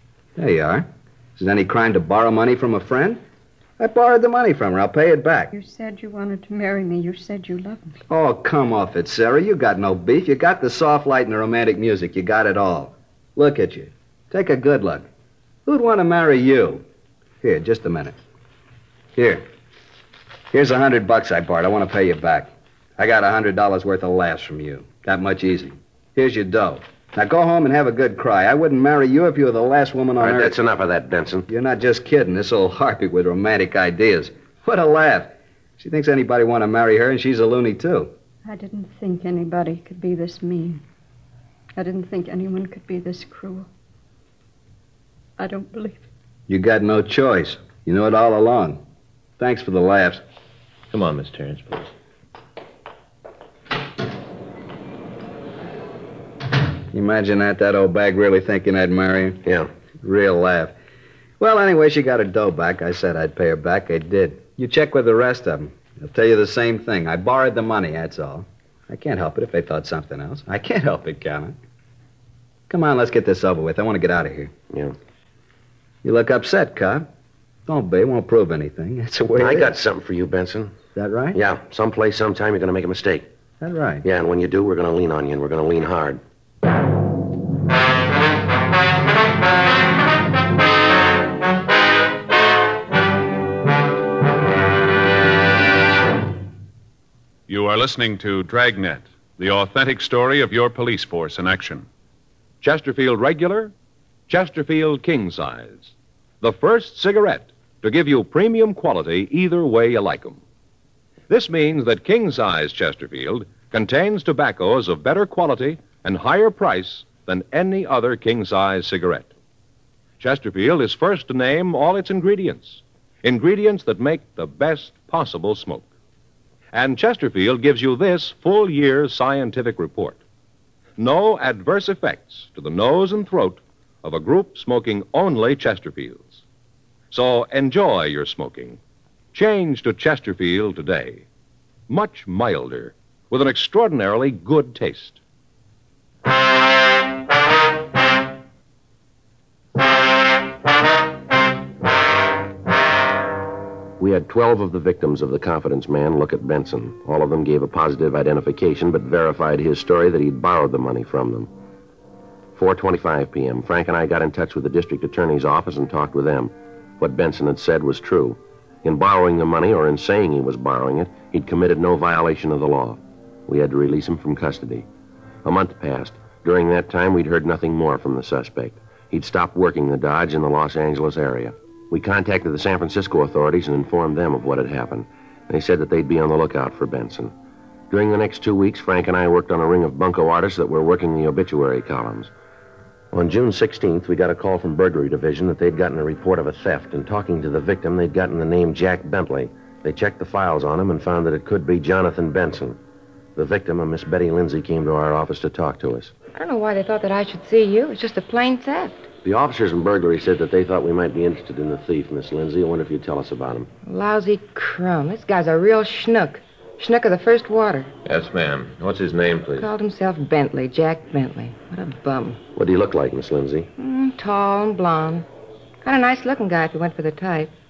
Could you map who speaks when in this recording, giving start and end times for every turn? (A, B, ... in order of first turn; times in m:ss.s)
0:00.4-0:03.2 A
0:03.8-0:05.5 A
0:05.5-0:08.0 B
0:08.1-0:15.0 A
0:15.7-0:16.8 A
0:17.4-0:18.1 A
0:19.2-0:19.4 A
0:20.5-0:30.5 A
0:30.2-0:31.5 C
0:31.5-0:38.1 A
0:38.4-0:40.8 B
0:41.8-0:43.7 B
0:45.4-0:46.0 B
0:46.5-0:48.8 A
0:49.4-0:50.2 A
0:50.9-0:51.9 D
0:56.9-0:59.4 A
0:59.4-0:59.7 C
1:00.0-1:00.7 A
1:01.4-1:11.5 A
1:12.7-1:14.5 A
1:14.7-1:15.0 C
1:16.0-1:17.0 A
1:17.6-1:19.7 A
1:19.4-1:20.8 C
1:20.9-1:21.4 A
1:21.3-1:23.3 C
1:23.6-1:24.0 A
1:24.0-1:26.2 C
1:37.5-1:41.8 E
1:42.6-1:43.7 F
1:44.3-1:50.4 F
1:51.3-1:59.3 F
2:00.2-2:05.9 F
2:06.7-2:10.2 F
2:11.0-2:16.4 F
2:17.1-2:18.8 F
2:19.3-2:21.2 F
2:21.9-2:25.2 F
2:34.0-2:41.5 C
2:42.5-2:54.9 C
2:55.4-3:07.3 C
3:07.9-3:12.3 C
3:13.1-3:22.8 C
3:23.3-3:26.1 C
3:26.3-3:29.1 G
3:29.2-3:33.7 C
3:33.8-3:37.9 G
3:38.0-3:39.7 D
3:39.6-3:42.4 G
3:42.5-3:43.7 C
3:43.8-3:45.2 G
3:45.8-3:47.5 G